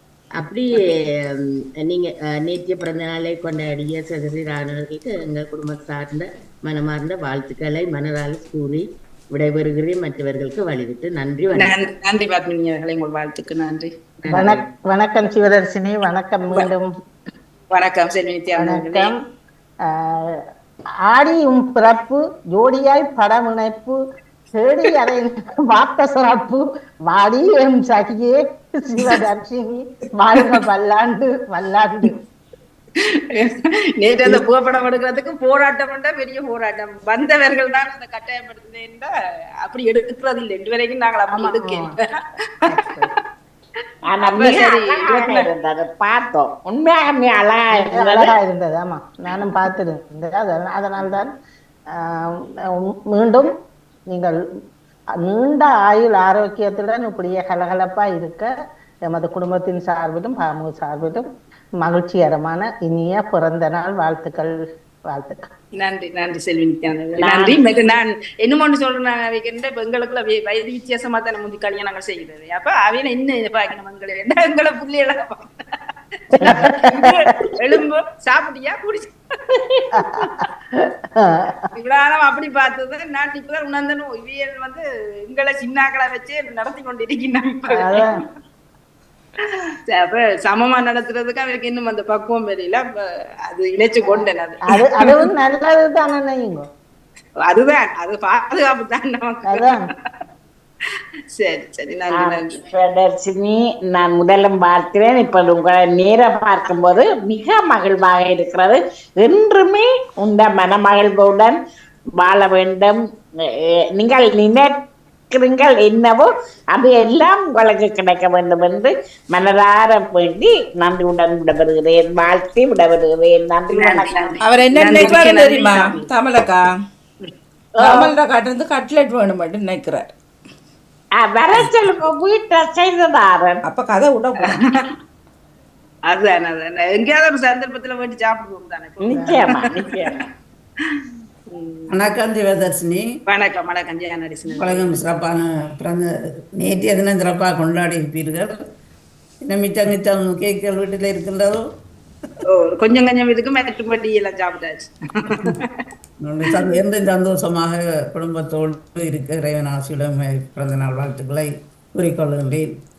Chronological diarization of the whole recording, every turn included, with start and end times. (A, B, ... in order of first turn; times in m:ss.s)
0:00.4-0:11.9 A
0:11.5-0:13.9 B
0:14.2-0:14.6 A
0:14.3-0:16.9 C
0:17.7-0:19.1 B
0:18.6-0:19.1 C
0:19.9-0:20.4 C
0:21.1-0:24.0 C
0:24.5-0:32.1 C
0:33.0-0:39.1 B
0:39.6-0:42.7 B
0:41.3-0:41.9 C
0:42.7-0:43.1 C
0:44.0-0:48.3 D
0:44.2-0:45.5 B
0:47.7-0:51.3 C
0:52.0-0:53.5 C
0:54.1-0:54.4 C
0:55.2-0:58.5 C
0:59.1-1:01.2 C
1:01.8-1:04.6 C
1:05.1-1:05.5 C
1:05.8-1:15.5 B
1:07.2-1:07.6 D
1:16.3-1:20.3 B
1:16.4-1:17.2 C
1:19.9-1:21.7 C
1:21.8-1:28.2 B
1:27.7-1:28.1 C
1:29.4-1:32.9 B
1:33.5-1:35.2 B
1:34.1-1:36.6 C
1:37.5-1:39.8 B
1:39.5-1:39.8 C
1:41.4-1:42.6 B
1:42.1-1:51.6 D
1:52.2-1:53.0 D
1:53.5-1:54.8 D
1:55.3-2:04.4 D
2:03.7-2:06.1 B
2:04.4-2:06.6 E
2:07.8-2:08.1 D
2:07.8-2:10.1 E
2:11.2-2:13.6 D
2:13.7-2:14.6 E
2:16.1-2:20.1 B
2:19.0-2:20.3 D
2:20.8-2:22.1 B
2:21.9-2:23.0 F
2:23.3-2:25.0 B
2:24.6-2:28.6 F
2:29.5-2:31.6 F
2:32.5-2:35.8 B
2:36.2-2:42.7 F